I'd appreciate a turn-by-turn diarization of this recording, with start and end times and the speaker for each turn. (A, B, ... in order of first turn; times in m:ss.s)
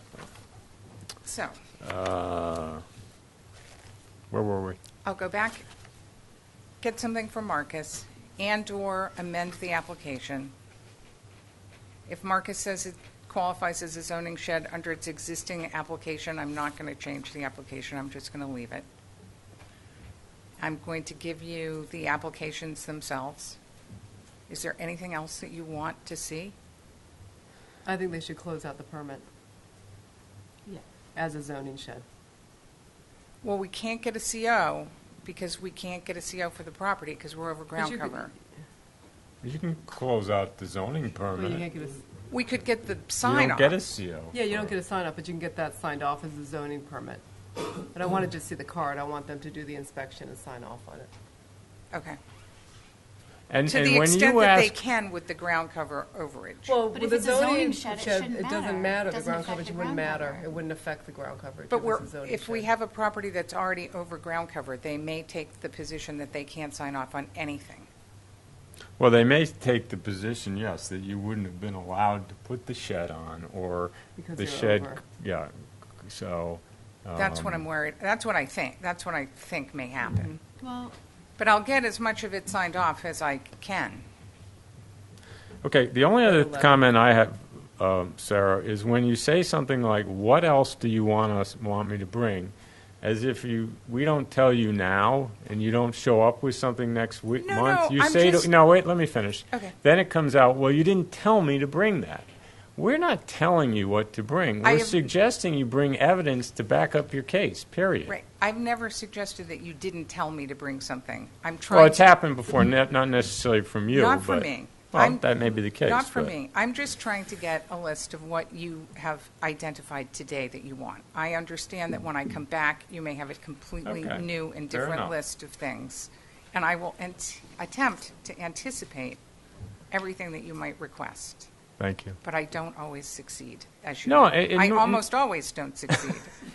0:01.2-0:01.6 A
0:01.8-0:02.8 B
0:04.3-0:04.8 B
0:05.0-0:05.6 A
0:06.8-0:10.5 A
0:12.1-0:18.8 A
0:20.6-0:23.6 A
0:24.5-0:26.5 A
0:27.8-0:29.3 C
0:31.1-0:32.0 C
0:33.4-0:38.3 A
0:37.8-0:38.3 C
0:39.4-0:41.7 B
0:41.3-0:42.0 C
0:42.3-0:43.8 A
0:43.2-0:44.7 B
0:44.3-0:47.2 C
0:47.9-0:51.1 C
0:51.9-0:52.2 A
0:53.5-0:54.8 B
0:53.7-0:56.8 A
0:56.7-1:02.7 C
0:56.9-1:00.6 D
1:01.7-1:07.9 A
1:09.0-1:17.6 B
1:14.2-1:15.0 C
1:17.2-1:20.4 A
1:20.6-1:21.0 D
1:21.4-1:24.0 A
1:25.6-1:48.1 B
1:26.2-1:26.8 C
1:37.4-1:38.5 A
1:44.6-1:45.1 A
1:48.1-1:52.1 A
1:51.7-1:56.3 B
1:53.9-2:09.2 A
2:03.8-2:05.1 B
2:09.9-2:11.5 A
2:11.8-2:12.2 B
2:12.2-2:16.3 A
2:14.0-2:15.0 B